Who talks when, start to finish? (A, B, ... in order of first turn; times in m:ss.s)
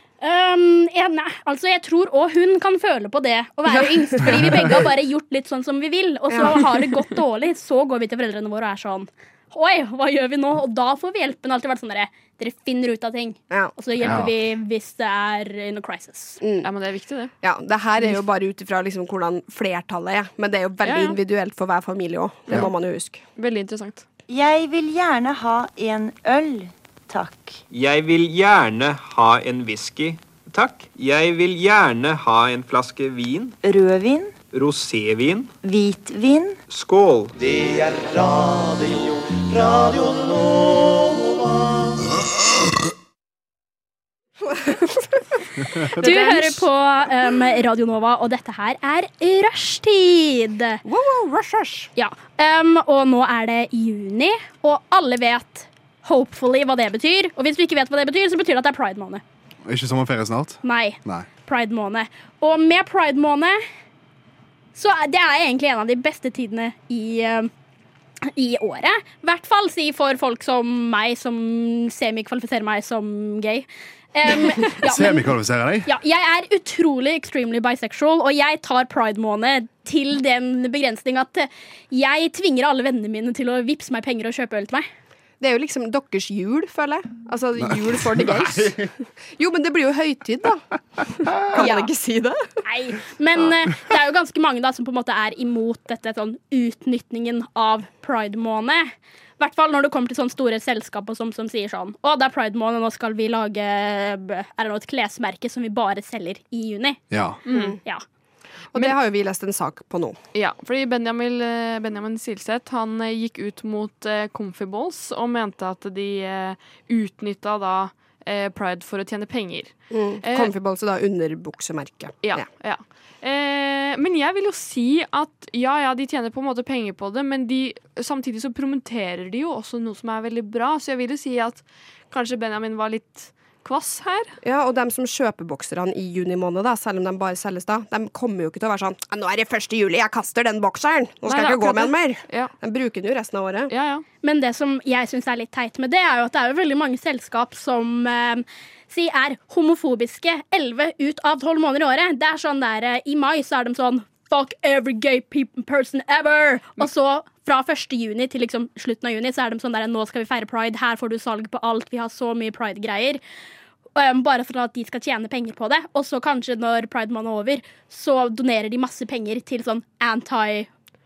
0:00.2-0:16.4 A
0:03.7-0:04.8 B
0:06.3-0:06.7 B
0:13.5-0:14.2 B
0:14.0-0:14.3 C
0:16.4-0:16.7 B
0:16.6-0:17.3 D
0:17.4-0:23.2 B
0:20.8-0:21.2 D
0:23.4-0:24.0 D
0:24.3-0:27.6 E
0:27.7-0:33.6 F
0:33.6-0:34.4 E
0:34.5-0:35.6 F
0:35.6-0:36.6 E
0:36.7-0:41.5 F
0:44.5-0:45.2 B
0:45.8-0:46.6 C
0:45.9-0:50.8 A
0:50.8-0:51.9 B
0:52.0-0:59.2 A
0:59.6-1:01.3 C
1:00.6-1:03.6 A
1:04.8-1:07.5 A
1:08.3-1:15.3 A
1:14.8-1:15.9 C
1:15.8-1:24.9 A
1:25.4-1:32.4 B
1:28.3-1:28.7 C
1:31.6-1:31.9 A
1:32.6-1:47.0 A
1:47.1-1:47.4 C
1:47.5-1:47.8 D
1:47.5-1:47.8 B
1:48.7-1:50.2 B
1:50.3-2:00.5 D
1:59.9-2:02.5 B
2:02.2-2:14.4 D
2:14.4-2:23.7 B
2:21.3-2:22.5 D
2:23.7-2:24.0 D
2:24.2-2:43.2 A
2:44.0-2:50.7 A